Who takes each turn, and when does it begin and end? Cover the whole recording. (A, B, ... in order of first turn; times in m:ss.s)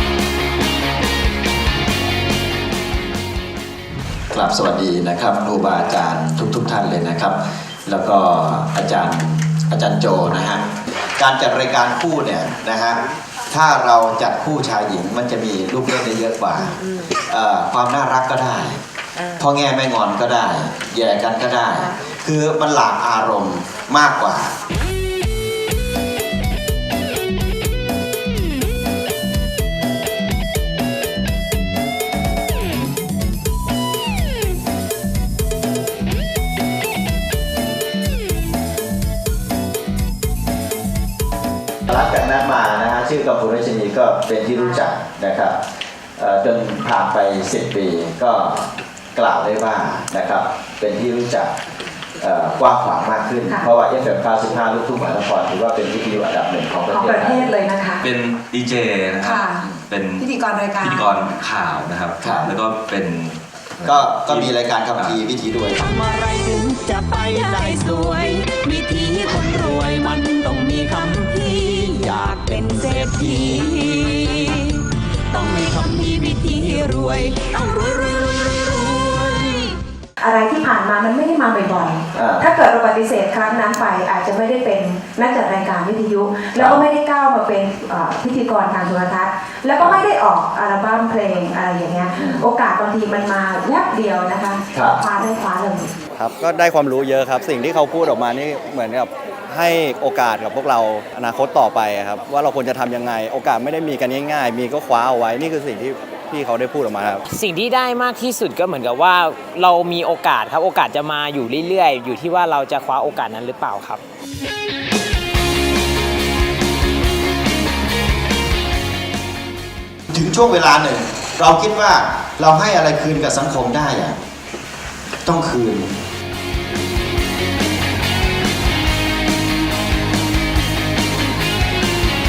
0:04.3-0:18.8 A
0:19.4-0:24.5 A
0:41.9-0:45.6 A
0:46.2-0:51.6 A
0:52.2-0:57.5 A
0:56.9-0:58.0 B
0:58.0-1:00.3 C
0:59.2-0:59.6 B
1:00.2-1:01.1 B
1:00.8-1:05.2 C
1:02.2-1:02.5 A
1:03.8-1:05.9 A
1:05.8-1:19.8 D
1:20.2-1:35.9 B
1:22.1-1:22.5 A
1:26.6-1:26.8 A
1:32.2-1:32.4 A
1:36.2-1:47.1 E
1:47.3-1:54.0 F
2:00.1-2:04.2 A
2:05.3-2:06.0 A